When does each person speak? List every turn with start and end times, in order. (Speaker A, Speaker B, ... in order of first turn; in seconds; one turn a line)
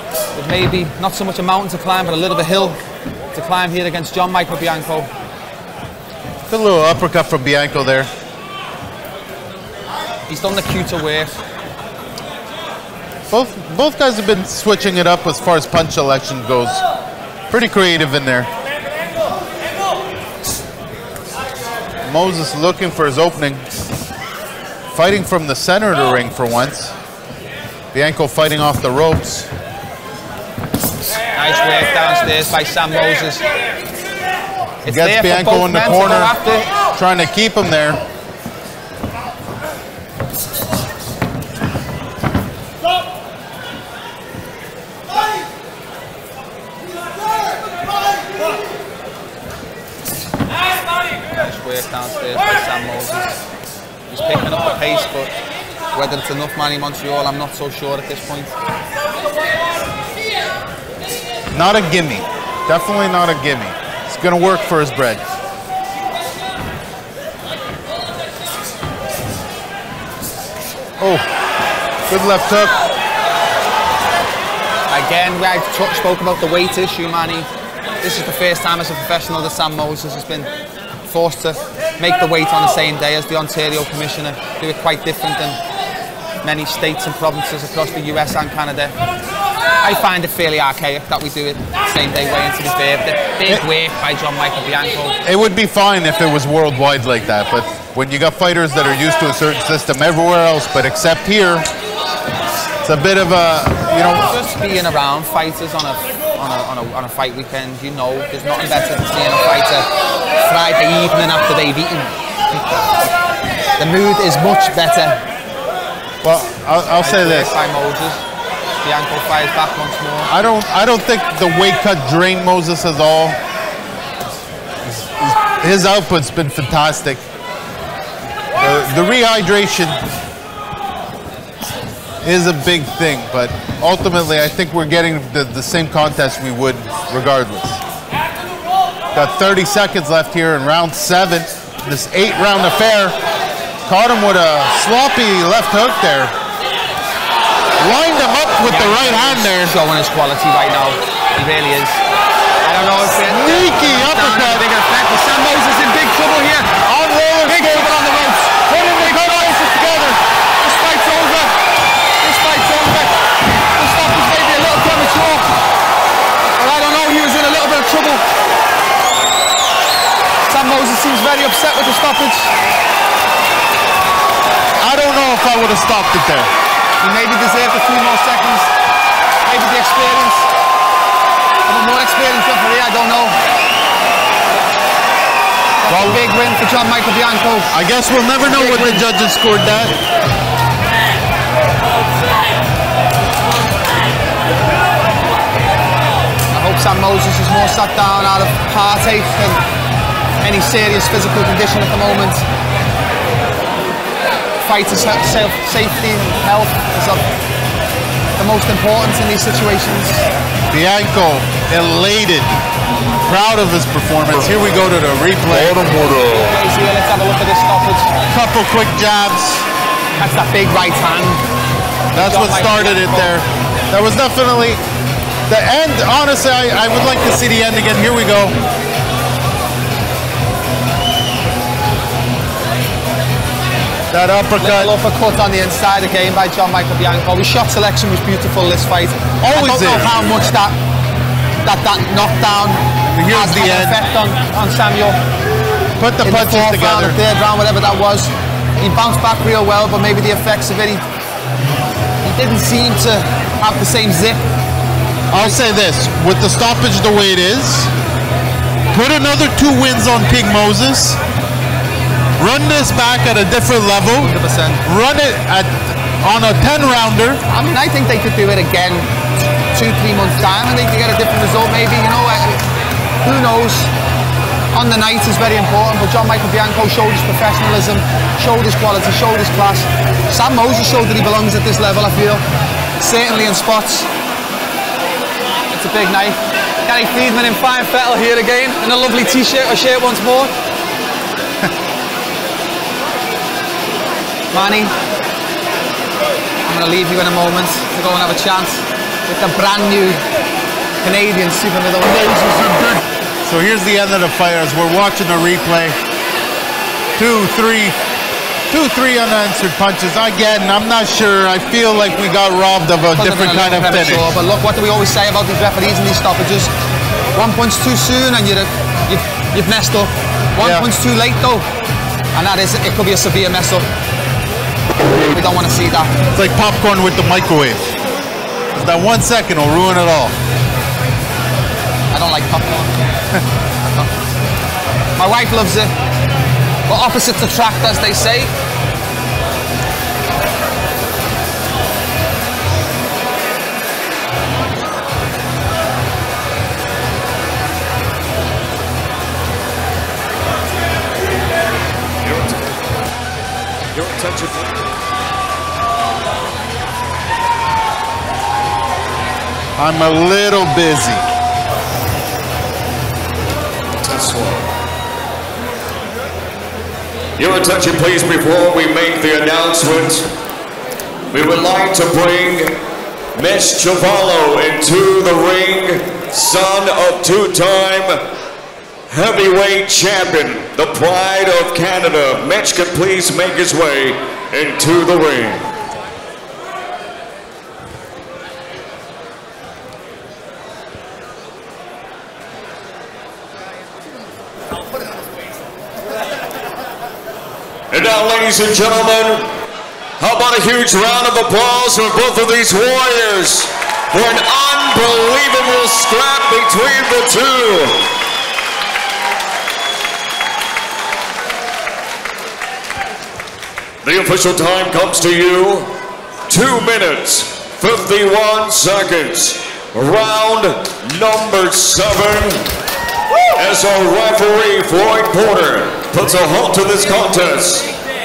Speaker A: 0.3-2.8
Speaker A: 3.3-5.1
Speaker B: 6.5-8.1
Speaker A: 10.3-11.4
Speaker B: 13.3-16.8
Speaker B: 17.5-18.5
Speaker B: 22.1-23.7
Speaker B: 24.9-26.9
Speaker B: 27.9-29.5
Speaker A: 31.4-33.4
Speaker B: 34.9-36.3
Speaker A: 34.9-36.7
Speaker B: 36.9-38.0
Speaker A: 51.3-53.4
Speaker A: 54.1-55.3
Speaker A: 55.9-58.5
Speaker B: 61.5-65.2
Speaker B: 71.0-71.3
Speaker B: 72.1-72.8
Speaker A: 74.9-77.5
Speaker A: 78.0-80.5
Speaker A: 81.1-85.6
Speaker A: 86.4-88.9
Speaker A: 89.8-95.2
Speaker B: 95.2-101.7
Speaker B: 102.8-104.3
Speaker A: 104.2-109.9
Speaker A: 110.4-112.1
Speaker A: 113.8-115.2
Speaker B: 116.2-117.5
Speaker A: 117.0-118.2
Speaker A: 118.8-120.3
Speaker B: 120.3-123.4
Speaker B: 124.8-127.2
Speaker B: 128.6-130.0
Speaker B: 132.2-137.8
Speaker B: 139.1-143.2
Speaker B: 143.9-146.3
Speaker B: 147.8-149.8
Speaker A: 148.6-152.0
Speaker A: 152.7-156.7
Speaker B: 153.2-154.7
Speaker B: 156.8-158.0
Speaker A: 157.4-160.0
Speaker B: 158.7-160.2
Speaker A: 160.6-161.5
Speaker A: 162.2-163.2
Speaker A: 163.7-165.5
Speaker A: 166.6-168.2
Speaker A: 170.5-172.5
Speaker B: 174.8-176.5
Speaker A: 177.0-178.7
Speaker A: 179.5-180.5
Speaker A: 181.7-183.4
Speaker A: 185.8-187.7
Speaker B: 185.9-186.2
Speaker B: 187.7-190.0
Speaker A: 188.4-189.0
Speaker A: 196.5-199.6
Speaker A: 200.4-202.4
Speaker A: 204.6-207.2
Speaker A: 208.4-210.2
Speaker B: 210.7-212.6
Speaker B: 213.2-215.9
Speaker C: 215.5-216.5
Speaker A: 216.1-218.2
Speaker B: 218.3-219.7
Speaker A: 220.2-221.4
Speaker B: 222.1-224.8
Speaker A: 222.1-223.3
Speaker B: 225.5-228.6
Speaker B: 234.1-234.9
Speaker A: 234.6-240.8
Speaker B: 239.4-240.5
Speaker A: 241.7-245.2
Speaker B: 243.1-244.0
Speaker B: 246.0-247.2
Speaker A: 246.2-251.0
Speaker A: 252.2-254.4
Speaker B: 255.3-257.9
Speaker B: 258.9-261.2
Speaker B: 262.4-267.4
Speaker A: 264.2-264.8
Speaker A: 267.5-269.1
Speaker A: 269.7-272.6
Speaker A: 273.2-273.9
Speaker A: 274.7-282.4
Speaker A: 283.0-284.1
Speaker A: 285.7-290.5
Speaker A: 294.5-294.9
Speaker A: 296.6-300.2
Speaker A: 301.0-303.0
Speaker B: 303.4-306.0
Speaker B: 307.2-308.0
Speaker B: 308.7-314.3
Speaker A: 313.2-316.7
Speaker A: 317.4-321.7
Speaker B: 320.6-320.9
Speaker A: 322.3-323.9
Speaker A: 325.3-326.1
Speaker B: 326.3-327.8
Speaker B: 328.7-330.4
Speaker A: 332.1-332.9
Speaker A: 335.2-335.9
Speaker A: 336.9-338.5
Speaker C: 352.2-352.8
Speaker C: 353.9-354.9
Speaker B: 359.8-361.3
Speaker C: 364.0-364.7
Speaker C: 367.4-370.3
Speaker C: 371.3-372.8
Speaker C: 373.4-378.2
Speaker C: 379.1-385.7
Speaker C: 397.9-399.5
Speaker C: 400.2-408.1
Speaker C: 414.0-415.9
Speaker C: 416.5-422.7
Speaker C: 423.6-427.9